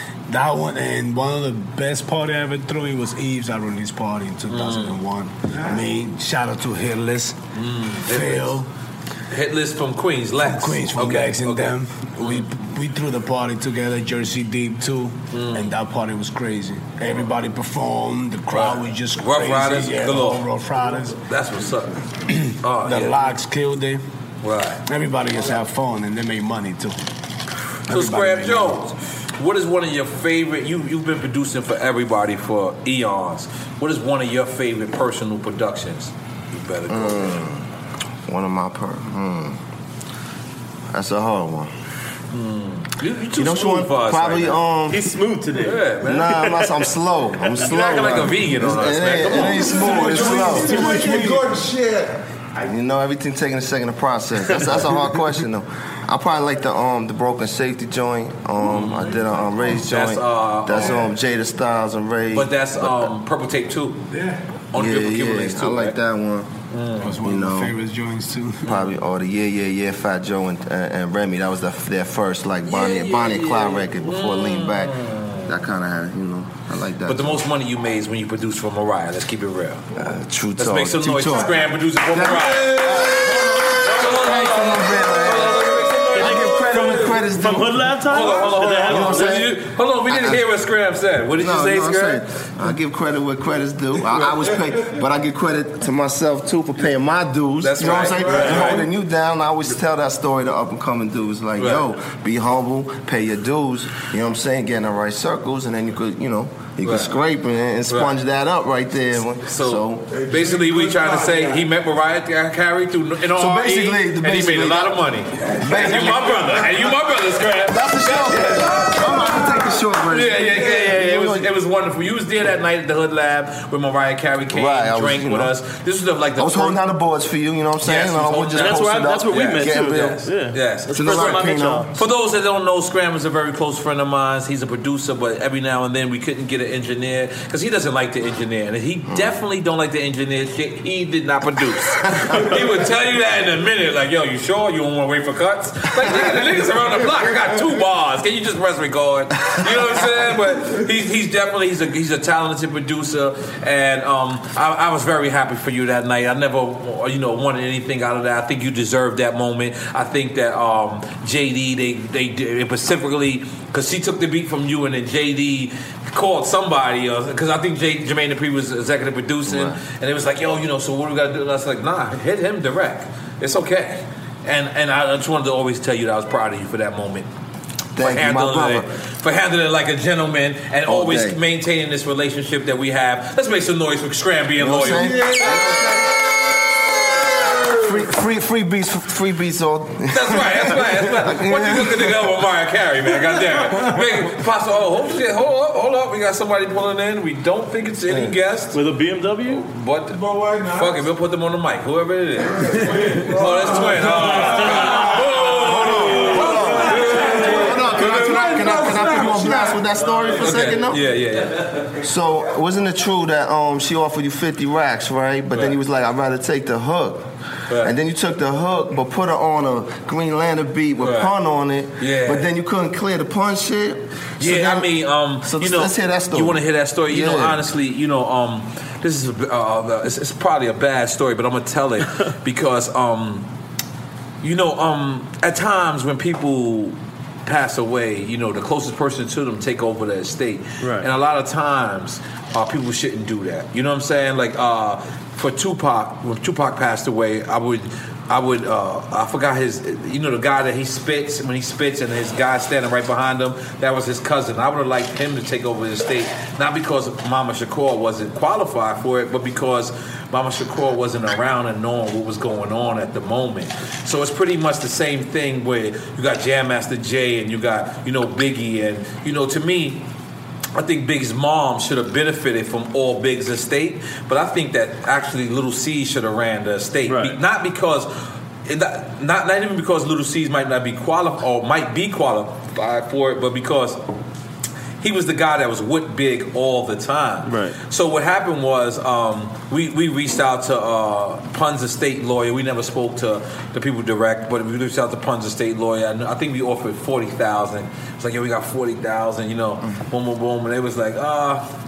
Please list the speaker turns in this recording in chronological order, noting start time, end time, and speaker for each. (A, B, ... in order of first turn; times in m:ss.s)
0:00.3-0:07.4 A
0:04.5-0:05.0 B
0:07.5-0:08.6 B
0:08.1-0:08.7 A
0:09.3-0:12.5 B
0:10.4-0:21.2 A
0:15.3-0:15.7 B
0:18.5-0:20.5 B
0:21.2-0:22.0 B
0:22.3-0:24.0 A
0:22.6-0:23.3 B
0:24.4-0:24.8 B
0:24.9-0:27.0 A
0:27.9-0:28.8 A
0:27.9-0:37.4 B
0:36.9-0:37.6 C
0:38.2-0:39.6 C
0:40.9-0:41.7 C
0:42.3-0:44.6 B
0:43.4-0:45.1 C
0:44.9-0:45.9 D
0:45.6-0:46.5 B
0:46.0-0:50.9 C
0:47.6-0:49.9 B
0:49.2-0:50.9 D
0:49.7-0:52.2 E
0:50.0-0:51.5 A
0:52.6-1:02.9 C
0:58.7-0:59.1 B
0:59.6-1:01.1 B
1:02.3-1:04.1 B
1:04.7-1:06.0 B
1:04.7-1:06.5 C
1:06.7-1:07.1 B
1:07.0-1:08.7 A
1:07.2-1:07.7 C
1:08.6-1:14.9 C
1:12.6-1:15.6 B
1:15.5-1:17.4 C
1:17.0-1:19.8 B
1:20.0-1:21.6 C
1:20.6-1:23.2 B
1:22.1-1:27.9 C
1:23.8-1:27.2 B
1:26.1-1:29.4 D
1:28.1-1:32.2 B
1:28.9-1:29.5 C
1:30.1-1:30.4 C
1:31.4-1:50.0 C
1:37.6-1:38.9 B
1:38.3-1:38.7 D
1:41.6-1:41.9 B
1:46.8-1:47.2 B
1:47.9-1:48.1 B
1:49.4-1:58.9 B
1:50.1-1:51.6 E
1:53.4-1:55.0 C
1:55.6-1:56.6 C
1:57.7-2:01.5 C
1:58.5-1:59.8 E
2:00.1-2:06.8 B
2:04.5-2:05.5 C
2:06.4-2:10.3 C
2:07.8-2:57.3 B
2:08.6-2:11.9 D
2:10.9-2:11.9 C
2:49.4-2:49.8 C
2:58.0-2:58.8 C
2:58.0-3:05.8 B
3:00.8-3:01.4 C
3:04.6-3:05.8 C
3:05.0-3:06.0 E
3:07.4-3:07.8 E
3:07.8-3:12.1 C
3:10.1-3:18.8 B
3:18.7-3:19.6 D
3:19.4-3:20.2 B
3:20.1-3:21.0 E
3:20.7-3:28.6 B
3:22.5-3:25.5 E
3:24.2-3:25.0 D
3:25.6-3:31.0 C
3:26.2-3:30.3 E
3:30.3-3:31.7 B
3:32.0-3:37.3 C
3:35.5-3:35.8 B
3:37.7-3:37.9 B
3:37.8-3:44.9 C
3:41.0-3:41.3 B
3:42.0-3:42.5 B
3:44.4-3:53.5 B
3:45.4-3:47.6 C
3:54.4-4:30.0 B
4:00.8-4:01.1 D
4:30.7-4:38.1 B
4:37.0-4:37.4 D
4:38.6-4:44.0 B
4:45.0-5:01.6 B
4:47.4-4:47.8 D